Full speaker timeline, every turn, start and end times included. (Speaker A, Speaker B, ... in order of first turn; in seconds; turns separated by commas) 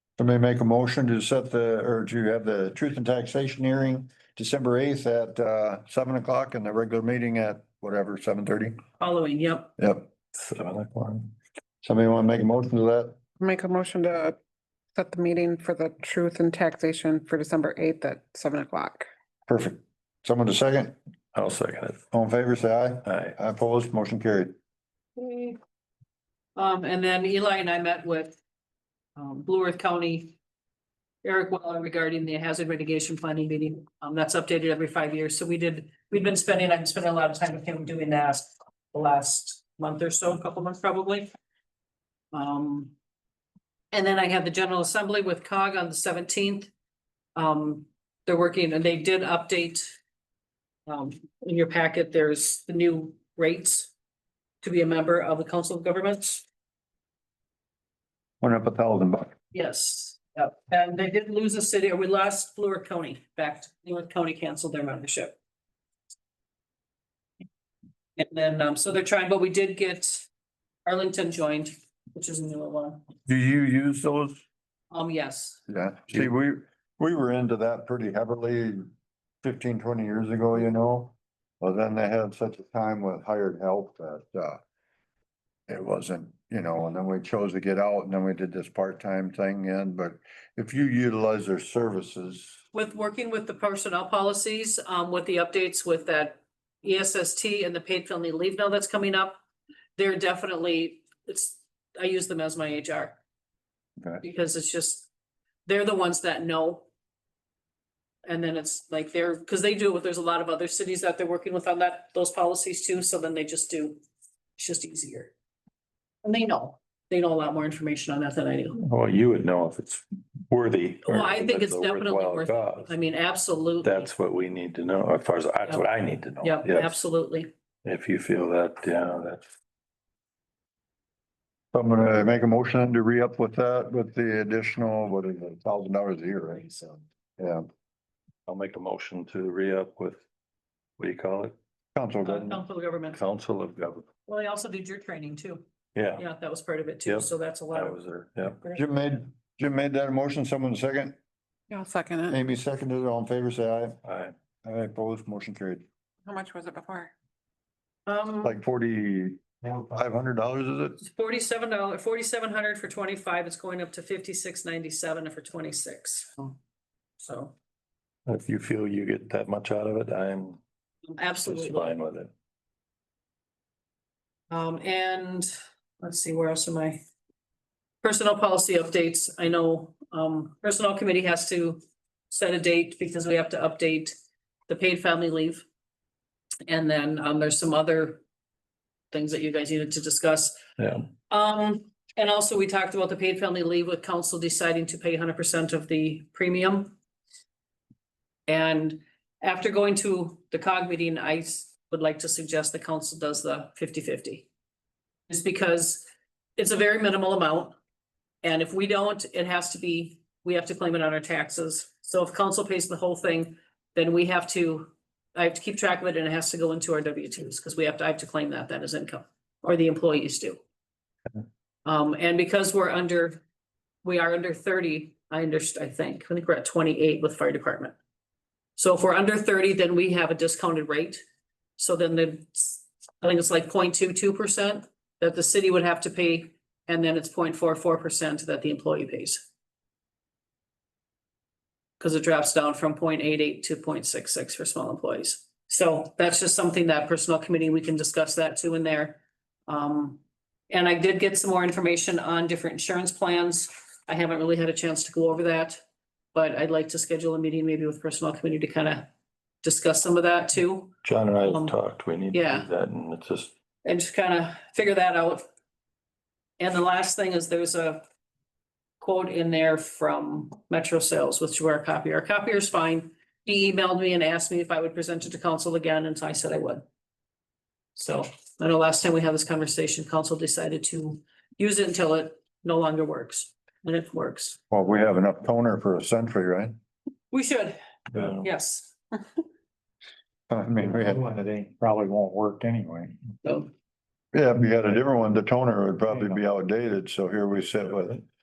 Speaker A: 0.2-8.8, Speaker B: 9.0-9.7, Speaker A: 9.8-10.1, Speaker C: 10.3-11.3, Speaker A: 11.8-13.2, Speaker D: 13.4-14.4, Speaker D: 14.9-19.1, Speaker A: 19.5-21.0, Speaker C: 21.4-22.0, Speaker A: 22.1-24.6, Speaker C: 23.1-23.4, Speaker B: 25.2-25.6, Speaker B: 26.6-28.4, Speaker B: 29.2-30.4, Speaker B: 31.2-41.3, Speaker B: 42.3-42.9, Speaker B: 43.9-46.7, Speaker B: 47.4-50.0, Speaker B: 50.9-53.9, Speaker B: 54.6-56.4, Speaker A: 58.4-59.4, Speaker B: 59.5-65.4, Speaker B: 68.2-70.3, Speaker B: 70.9-73.0, Speaker A: 73.3-74.4, Speaker B: 74.9-75.6, Speaker A: 75.7-78.9, Speaker A: 79.4-84.6, Speaker A: 85.7-92.6, Speaker B: 92.7-99.4, Speaker B: 100.0-103.2, Speaker B: 104.2-105.1, Speaker B: 105.7-106.9, Speaker B: 108.2-114.0, Speaker B: 114.6-115.3, Speaker B: 116.2-118.8, Speaker C: 118.8-122.9, Speaker B: 121.1-124.1, Speaker C: 123.8-127.0, Speaker B: 126.4-127.5, Speaker C: 127.8-129.5, Speaker A: 131.7-137.7, Speaker C: 138.5-140.2, Speaker C: 141.0-141.6, Speaker A: 141.9-142.6, Speaker B: 142.2-143.2, Speaker C: 143.1-144.1, Speaker B: 144.3-145.6, Speaker C: 145.9-146.2, Speaker B: 146.2-148.0, Speaker C: 147.1-148.6, Speaker B: 148.6-148.8, Speaker A: 148.8-151.2, Speaker D: 151.7-152.4, Speaker A: 152.3-154.0, Speaker C: 154.1-154.3, Speaker A: 154.6-155.8, Speaker D: 156.3-157.1, Speaker B: 158.1-158.5, Speaker A: 158.4-161.0, Speaker B: 161.1-166.6, Speaker B: 167.2-167.5, Speaker C: 168.3-170.6, Speaker B: 171.1-171.9, Speaker C: 171.4-172.3, Speaker B: 174.5-177.0, Speaker B: 178.0-184.1, Speaker B: 184.7-185.7, Speaker B: 186.7-188.2, Speaker B: 189.1-190.6, Speaker C: 190.8-191.1, Speaker B: 191.3-197.0, Speaker B: 198.5-204.5, Speaker B: 205.3-206.1, Speaker B: 206.6-207.7, Speaker B: 208.4-220.6, Speaker B: 221.8-223.4, Speaker B: 224.0-227.9, Speaker B: 228.8-231.2, Speaker B: 231.8-239.4, Speaker B: 242.0-255.8, Speaker B: 256.3-259.1, Speaker B: 259.6-261.7, Speaker C: 261.0-263.5, Speaker B: 262.3-262.7, Speaker B: 263.8-265.4, Speaker B: 266.6-268.0, Speaker B: 269.0-276.8, Speaker B: 278.0-284.6, Speaker A: 284.7-286.8, Speaker B: 287.3-287.8, Speaker C: 288.1-288.5, Speaker B: 288.4-289.2, Speaker A: 290.5-291.3, Speaker E: 291.0-293.2, Speaker B: 293.4-293.7, Speaker A: 294.3-298.2